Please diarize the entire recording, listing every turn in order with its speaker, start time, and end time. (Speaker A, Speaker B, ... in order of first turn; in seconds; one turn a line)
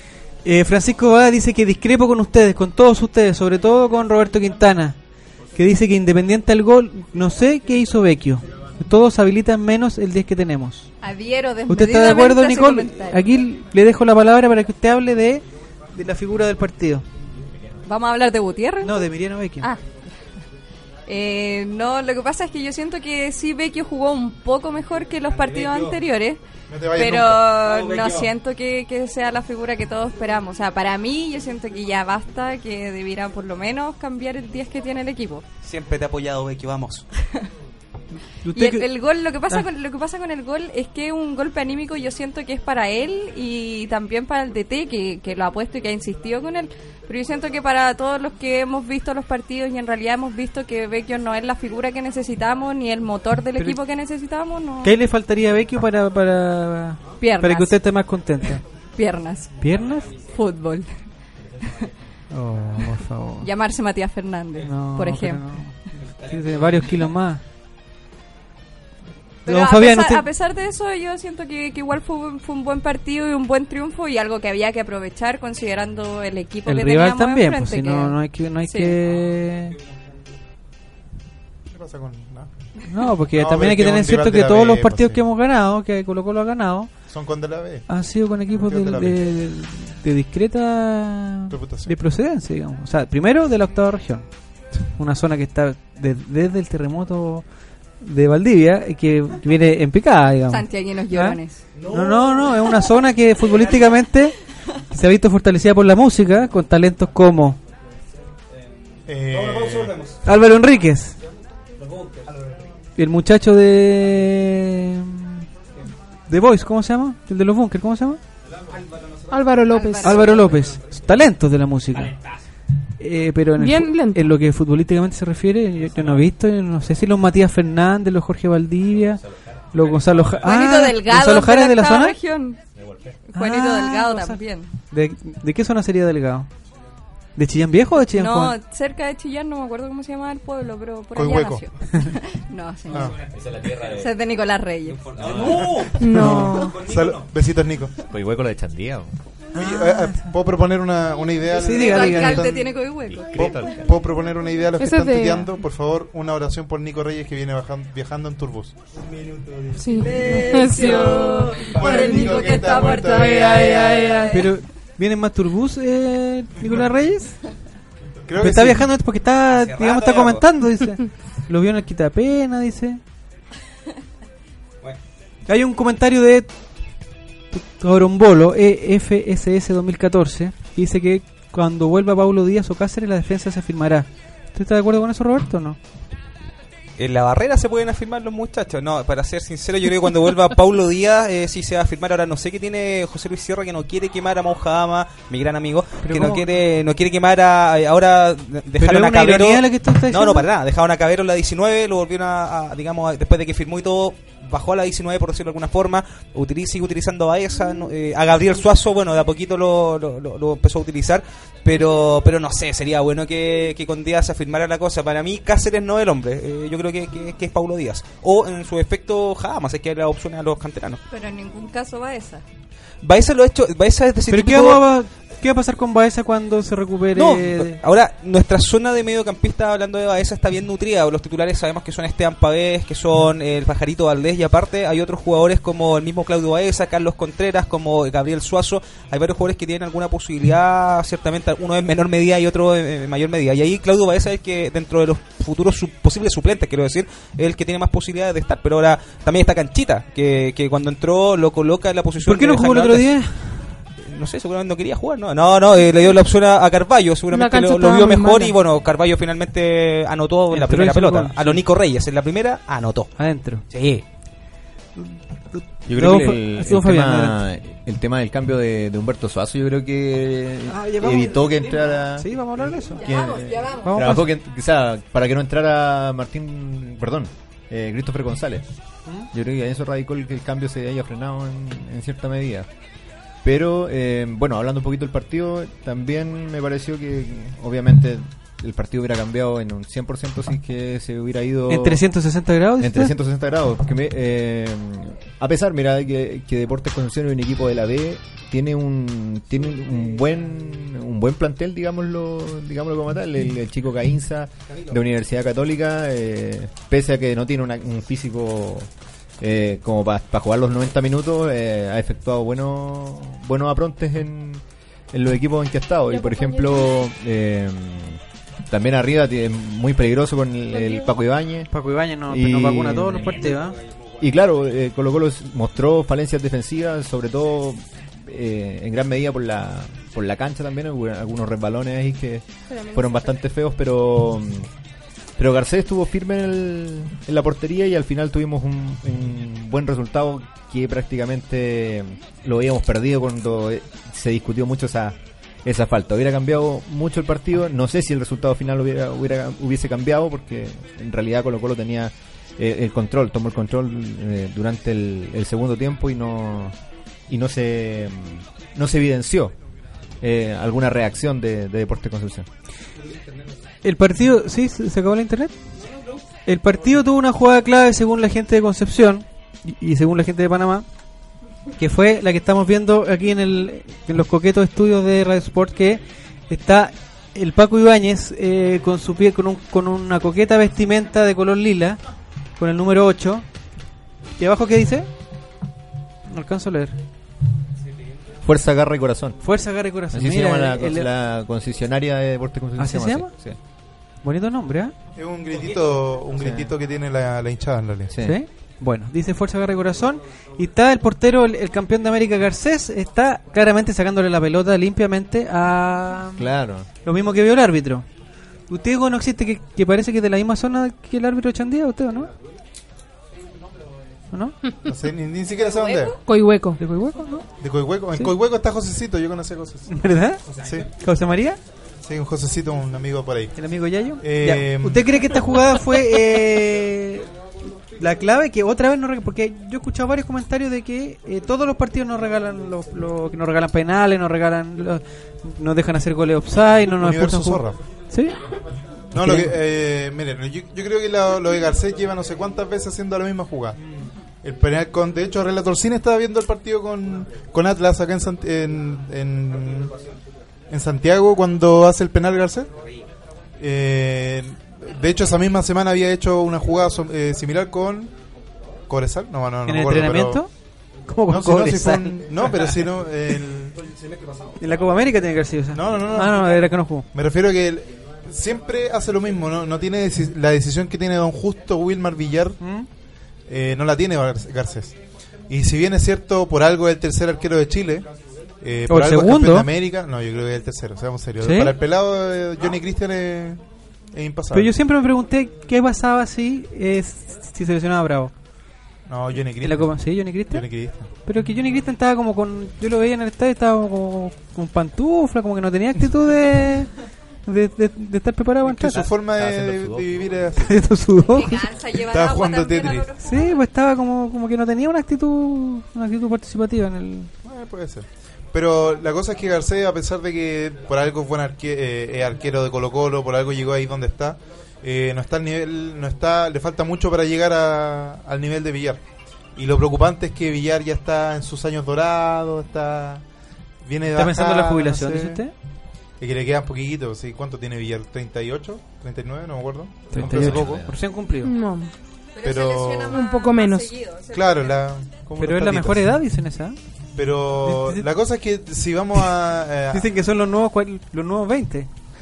Speaker A: 0.4-5.0
Speaker A: 5.5-10.9
Speaker B: 11.0-13.3
Speaker A: 11.7-17.0
Speaker B: 17.8-19.1
Speaker A: 18.8-19.7
Speaker B: 21.1-26.4
Speaker C: 26.7-27.6
Speaker B: 26.9-35.4
Speaker D: 27.6-28.3
Speaker D: 35.6-37.0
Speaker A: 38.4-38.9
Speaker B: 38.5-55.0
Speaker A: 54.8-58.6
Speaker B: 57.2-57.8
Speaker B: 59.0-59.5
Speaker A: 59.6-60.1
Speaker B: 60.2-60.9
Speaker A: 62.3-63.5
Speaker B: 63.4-65.5
Speaker A: 64.6-67.4
Speaker B: 69.4-79.0
Speaker A: 69.5-70.3
Speaker A: 76.7-79.8
Speaker C: 81.7-82.5
Speaker A: 82.9-86.9
Speaker C: 83.3-85.2
Speaker C: 87.1-87.9
Speaker A: 87.9-94.3
Speaker C: 88.5-89.3
Speaker C: 91.5-92.0
Speaker A: 94.9-97.4
Speaker A: 98.0-104.4
Speaker B: 100.5-101.6
Speaker A: 104.9-107.6
Speaker C: 109.1-110.0
Speaker A: 110.2-111.2
Speaker A: 113.0-115.4
Speaker A: 116.3-118.2
Speaker E: 119.3-120.4
Speaker B: 119.7-120.3
Speaker A: 120.0-122.1
Speaker A: 123.0-132.2
Speaker E: 123.6-124.2
Speaker B: 130.4-132.6
Speaker F: 132.8-133.2
Speaker B: 133.3-134.7
Speaker A: 133.3-136.5
Speaker A: 137.3-138.6
Speaker B: 138.1-145.3
Speaker C: 141.1-141.7
Speaker C: 142.9-143.2
Speaker F: 143.3-144.1
Speaker D: 144.9-146.1
Speaker F: 145.2-145.7
Speaker C: 145.6-146.3
Speaker E: 146.0-146.8
Speaker A: 146.1-146.6
Speaker D: 146.8-147.2
Speaker C: 146.8-147.9
Speaker F: 148.1-149.1
Speaker A: 149.5-150.3
Speaker C: 149.6-158.8
Speaker A: 151.5-152.5
Speaker B: 151.6-153.7
Speaker F: 153.1-153.9
Speaker E: 154.8-155.5
Speaker E: 159.7-162.3
Speaker B: 159.9-164.6
Speaker C: 161.7-164.3
Speaker A: 164.3-167.4
Speaker C: 168.3-168.9
Speaker A: 168.4-173.0
Speaker D: 169.5-170.4
Speaker A: 175.5-176.5
Speaker A: 177.5-185.8
Speaker D: 187.0-221.0
Speaker A: 196.0-196.4
Speaker A: 198.8-200.5
Speaker B: 221.1-222.4
Speaker D: 223.0-224.8
Speaker A: 224.3-227.8
Speaker D: 227.1-253.1
Speaker A: 252.2-253.8
Speaker D: 254.0-263.1
Speaker E: 257.3-258.6
Speaker A: 260.5-261.6
Speaker A: 263.2-263.6
Speaker D: 263.7-264.0
Speaker A: 265.0-267.4
Speaker F: 265.9-278.7
Speaker A: 270.7-273.1
Speaker B: 272.9-274.1
Speaker A: 273.8-274.3
Speaker F: 279.3-282.7
Speaker F: 283.4-292.0
Speaker A: 291.7-293.1
Speaker F: 292.8-308.9
Speaker F: 309.4-321.7
Speaker E: 316.1-316.8
Speaker E: 320.8-321.1
Speaker A: 321.7-323.8
Speaker F: 322.3-323.4
Speaker F: 324.2-334.7
Speaker F: 335.4-356.8
Speaker F: 357.3-359.5
Speaker F: 360.2-362.4
Speaker A: 363.8-365.5
Speaker A: 366.4-370.9
Speaker A: 371.8-382.0
Speaker A: 382.6-383.4
Speaker A: 384.4-385.1
Speaker A: 386.3-387.0
Speaker F: 388.4-389.4
Speaker A: 389.4-391.1
Speaker F: 390.1-393.6
Speaker A: 392.8-393.3
Speaker A: 394.2-394.9
Speaker C: 395.1-398.1
Speaker F: 396.3-396.7
Speaker F: 398.1-398.4
Speaker A: 398.2-406.5
Speaker F: 406.4-406.9
Speaker A: 407.0-408.1
Speaker A: 408.7-412.3
Speaker A: 414.3-414.6
Speaker C: 414.9-416.2
Speaker B: 415.5-416.2
Speaker E: 416.2-416.8
Speaker A: 416.8-417.4
Speaker C: 417.6-419.9
Speaker A: 419.9-421.6
Speaker C: 420.5-420.9
Speaker C: 422.0-423.6
Speaker A: 423.6-427.3
Speaker C: 424.2-425.4
Speaker A: 428.0-438.4
Speaker C: 436.9-437.8
Speaker C: 439.1-443.8
Speaker A: 439.2-439.5
Speaker C: 444.4-449.9
Speaker C: 450.7-452.7
Speaker C: 453.6-458.1
Speaker C: 458.9-460.4
Speaker A: 459.6-460.5
Speaker A: 461.1-462.7
Speaker C: 461.3-463.8
Speaker A: 464.6-467.1
Speaker C: 465.7-472.6
Speaker A: 472.6-472.9
Speaker C: 473.5-475.0
Speaker C: 475.5-478.1
Speaker C: 478.6-483.6
Speaker A: 478.9-479.7
Speaker A: 481.4-481.7
Speaker C: 484.1-484.7
Speaker A: 484.5-488.3
Speaker C: 489.1-491.1
Speaker A: 489.6-490.7
Speaker A: 491.2-496.9
Speaker A: 497.4-499.0
Speaker C: 498.7-500.8
Speaker F: 498.8-500.5
Speaker A: 500.6-501.6
Speaker B: 501.2-503.6
Speaker C: 502.0-503.1
Speaker A: 503.2-507.3
Speaker C: 507.4-519.0
Speaker C: 519.5-523.2
Speaker C: 523.8-525.4
Speaker A: 524.1-525.5
Speaker C: 526.2-530.8
Speaker A: 530.1-531.5
Speaker F: 530.1-531.0
Speaker E: 531.4-531.9
Speaker B: 532.3-534.9
Speaker C: 532.4-533.3
Speaker E: 533.1-534.1
Speaker C: 534.3-536.1
Speaker A: 535.4-536.8
Speaker C: 537.1-540.1
Speaker A: 537.6-538.1
Speaker A: 539.9-541.9